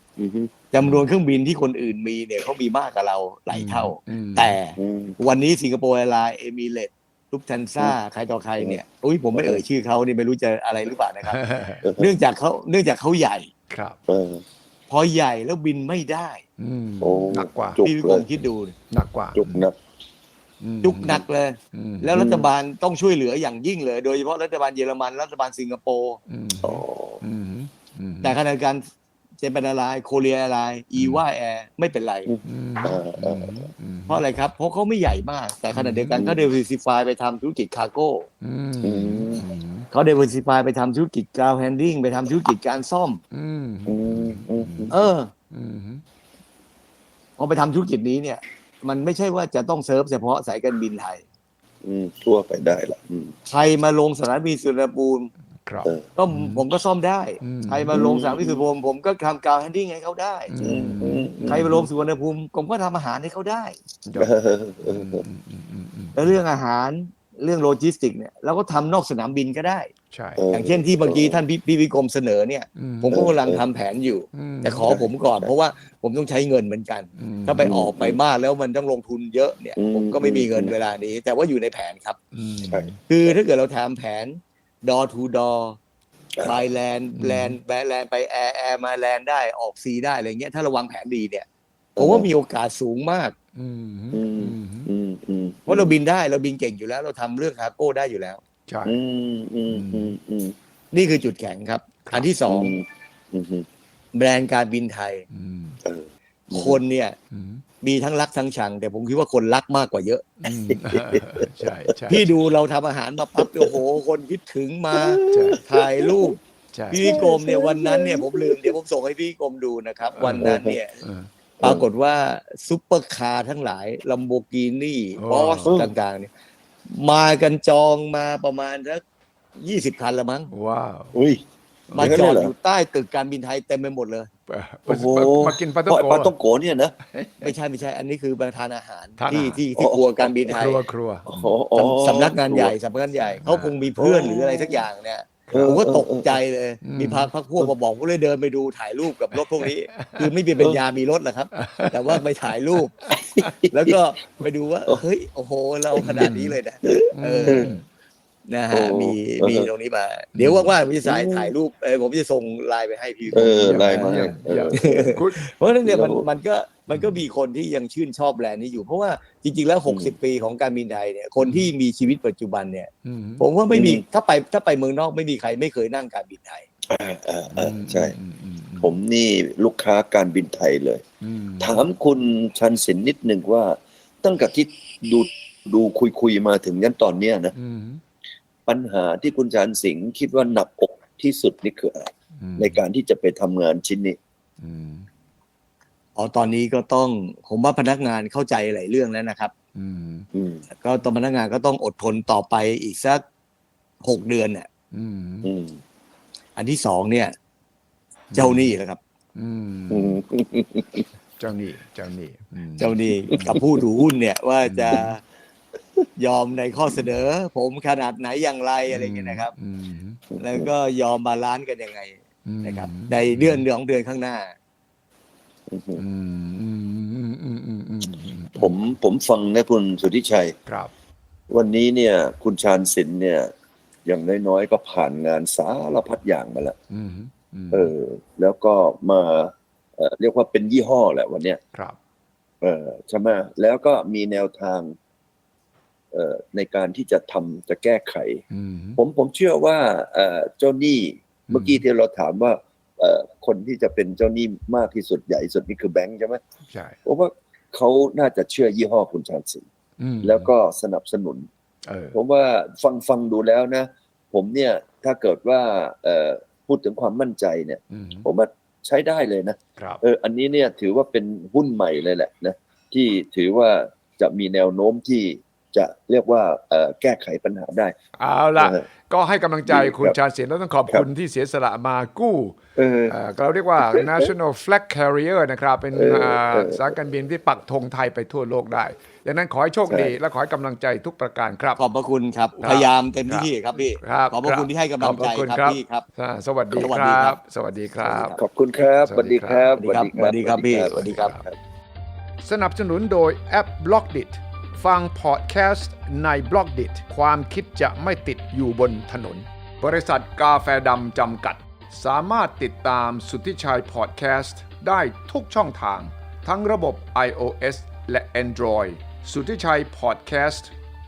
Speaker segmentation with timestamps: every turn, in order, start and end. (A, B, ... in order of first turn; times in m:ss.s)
0:00.2-0:00.5 A
0:00.7-0:11.4 B
0:03.5-0:04.6 C
0:04.8-0:05.2 A
0:09.4-0:09.6 A
0:11.2-0:11.8 C
0:11.8-0:12.1 A
0:12.0-0:13.5 B
0:13.7-0:14.0 C
0:14.1-0:14.4 A
0:14.9-0:16.4 B
0:16.6-0:17.8 C
0:17.0-0:18.3 A
0:17.8-0:18.7 B
0:18.9-0:19.7 C
0:19.4-0:19.8 A
0:20.6-0:22.2 C
0:20.8-0:26.2 B
0:22.1-0:22.5 A
0:26.3-0:28.4 C
0:26.6-0:27.2 A
0:28.2-0:28.9 B
0:29.4-0:32.3 B
0:30.9-0:31.2 C
0:32.3-0:33.7 A
0:32.4-0:34.2 C
0:34.1-0:38.3 B
0:35.7-0:36.3 C
0:36.1-0:36.5 A
0:38.4-0:39.9 C
0:38.8-0:39.4 A
0:39.9-0:43.2 B
0:43.3-0:45.0 C
0:43.9-0:44.9 A
0:44.9-0:45.3 B
0:45.5-0:46.0 C
0:47.4-0:51.2 B
0:51.8-0:53.3 A
0:53.5-0:55.3 B
0:55.6-0:56.6 C
0:56.2-1:00.5 B
0:57.4-0:58.0 C
0:57.9-0:58.6 A
1:00.5-1:01.8 C
1:00.6-1:01.9 A
1:01.4-1:03.8 B
1:04.1-1:06.4 C
1:04.2-1:05.2 A
1:06.1-1:09.9 B
1:10.1-1:10.4 C
1:10.4-1:11.4 A
1:10.5-1:22.2 B
1:12.8-1:13.3 C
1:13.1-1:13.6 A
1:14.3-1:14.9 C
1:14.8-1:15.5 A
1:17.2-1:17.7 C
1:17.6-1:18.2 A
1:19.8-1:20.7 A
1:22.3-1:23.0 C
1:22.6-1:23.3 A
1:23.1-1:25.8 B
1:26.4-1:31.4 B
1:27.2-1:27.6 C
1:32.0-1:32.3 A
1:32.0-1:33.4 B
1:33.6-1:34.9 C
1:34.1-1:35.9 A
1:35.7-1:38.4 B
1:38.7-1:39.0 C
1:38.9-1:40.6 A
1:39.7-1:40.1 C
1:40.9-1:42.8 B
1:42.5-1:43.7 A
1:44.1-1:45.2 B
1:45.3-1:45.8 C
1:45.8-1:46.8 A
1:46.5-1:47.2 B
1:47.3-1:47.6 C
1:47.8-1:50.2 B
1:50.4-1:52.2 C
1:50.4-1:52.2 A
1:52.1-1:56.4 B
1:53.4-1:53.8 A
1:54.9-1:56.4 A
1:55.3-1:55.6 C
1:56.7-1:57.1 C
1:56.9-2:01.0 B
1:57.0-1:58.7 A
2:00.2-2:01.3 C
2:00.4-2:00.8 A
2:01.6-2:01.9 A
2:01.6-2:06.3 B
2:05.2-2:05.7 C
2:05.6-2:05.9 A
2:06.9-2:09.0 B
2:09.6-2:10.5 B
2:10.5-2:11.1 C
2:11.1-2:11.4 A
2:11.9-2:12.2 C
2:11.9-2:14.3 B
2:12.0-2:12.5 A
2:14.5-2:16.3 C
2:14.9-2:17.0 A
2:17.1-2:17.6 C
2:17.4-2:20.8 B
2:19.2-2:19.6 C
2:19.8-2:20.5 A
2:20.5-2:21.6 C
2:21.3-2:22.8 A
2:21.8-2:33.0 B
2:23.3-2:23.8 C
2:24.0-2:24.8 A
2:25.5-2:25.7 C
2:25.5-2:26.4 A
2:26.8-2:27.3 C
2:29.4-2:30.3 C
2:31.6-2:32.2 C
2:33.0-2:33.5 C
2:33.1-2:33.9 A
2:33.7-2:37.7 B
2:36.0-2:36.3 A
2:36.0-2:36.6 C
2:36.9-2:37.8 A
2:37.1-2:37.8 C
2:38.5-2:56.7 B
2:38.7-2:39.7 A
2:40.4-2:40.7 C
2:41.0-2:41.5 A
2:43.3-2:45.5 C
2:43.3-2:45.0 A
2:45.9-2:46.2 A
2:46.9-2:47.2 C
2:49.9-2:50.1 A
2:51.4-2:51.7 C
2:53.0-2:53.4 C
2:53.7-2:54.0 A
2:56.9-2:58.1 A
2:57.5-2:58.9 C
2:58.8-3:01.0 A
3:01.2-3:01.9 C
3:01.6-3:07.5 A
3:07.5-3:08.0 C
3:08.7-3:14.2 A
3:12.4-3:12.8 C
3:14.6-3:15.1 C
3:16.2-3:19.5 B
3:19.7-3:20.3 C
3:20.3-3:20.6 A
3:20.8-3:23.2 B
3:24.0-3:24.7 B
3:24.9-3:25.5 C
3:25.4-3:25.8 A
3:26.6-3:27.4 B
3:28.3-3:28.7 C
3:28.3-3:29.0 B
3:29.4-3:30.2 C
3:29.9-3:31.0 A
3:31.4-3:33.6 C
3:32.8-3:35.2 B
3:33.3-3:33.8 A
3:34.6-3:35.1 C
3:36.2-3:39.5 B
3:38.9-3:40.2 C
3:40.3-3:40.7 A
3:40.4-3:44.5 B
3:42.4-3:43.6 C
3:45.7-3:46.0 A
3:46.0-3:48.8 C
3:48.6-3:50.5 A
3:50.7-3:50.9 C
3:51.5-3:53.5 A
3:54.1-3:56.8 A
3:56.9-3:57.9 C
3:57.7-4:01.6 A
4:02.6-4:05.0 A
4:06.1-4:08.4 A
4:08.5-4:09.0 C
4:09.0-4:16.4 A
4:11.5-4:11.8 C
4:16.7-4:17.0 C
4:17.0-4:19.6 A
4:20.0-4:20.5 C
4:20.2-4:21.5 A
4:21.9-4:22.2 C
4:22.1-4:37.9 A
4:27.9-4:28.3 C
4:29.8-4:30.0 C
4:38.2-4:42.6 C
4:38.6-4:38.8 A
4:39.7-4:40.2 A
4:42.8-4:43.1 A
4:43.1-4:51.8 C
4:43.8-4:44.3 A
4:45.9-4:46.9 A
4:49.9-4:50.1 A
4:51.8-4:56.0 B
4:52.6-4:58.4 C
4:56.7-4:57.4 B
4:58.0-5:01.6 A
4:59.0-4:59.7 C
4:59.8-5:01.3 B
5:00.8-5:01.4 C
5:02.4-5:20.7 C